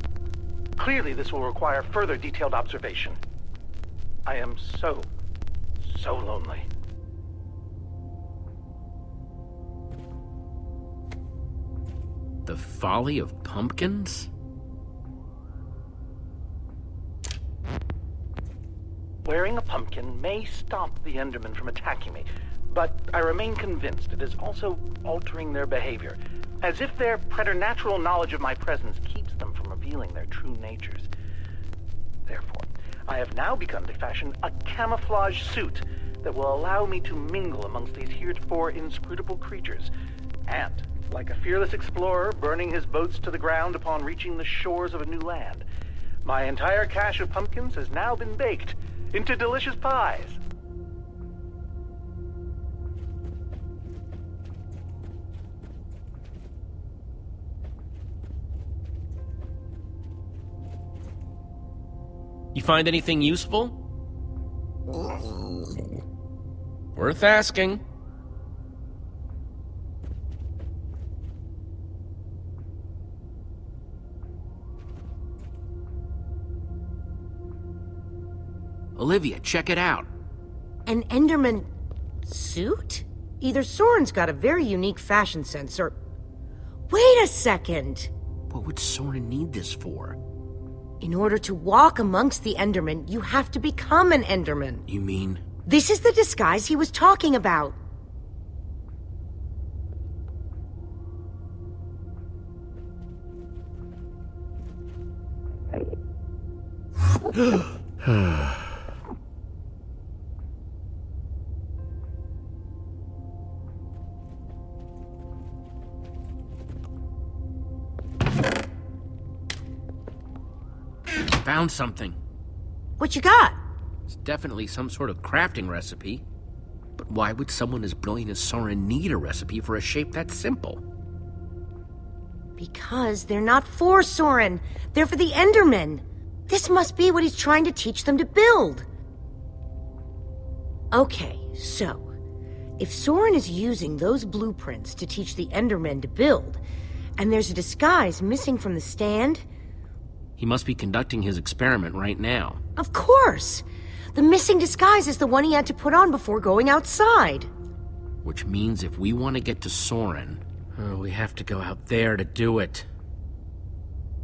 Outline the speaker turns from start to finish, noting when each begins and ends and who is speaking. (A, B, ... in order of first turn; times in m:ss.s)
0:00.8-0:03.2 A
0:04.3-0:05.1 A
0:05.8-0:06.7 A
0:12.5-0:14.3 B
0:19.2-0:31.1 A
0:32.3-0:39.9 A
0:40.5-0:45.7 A
0:46.2-0:50.4 A
1:02.5-1:03.8 B
1:07.0-1:07.8 B
1:19.0-1:20.1 B
1:20.9-1:21.7 C
1:22.3-1:26.0 C
1:26.9-1:28.1 C
1:28.5-1:30.2 B
1:31.0-1:34.8 C
1:34.9-1:35.4 B
1:35.7-1:37.8 C
1:48.2-1:48.5 B
2:01.3-2:02.2 B
2:03.0-2:03.6 C
2:04.1-2:06.2 B
2:07.0-2:10.8 B
2:12.6-2:18.9 C
2:20.9-2:22.0 C
2:22.8-2:26.6 C
2:27.2-2:29.4 C
2:30.4-2:32.6 B
2:32.8-2:37.5 C
2:38.2-2:42.9 B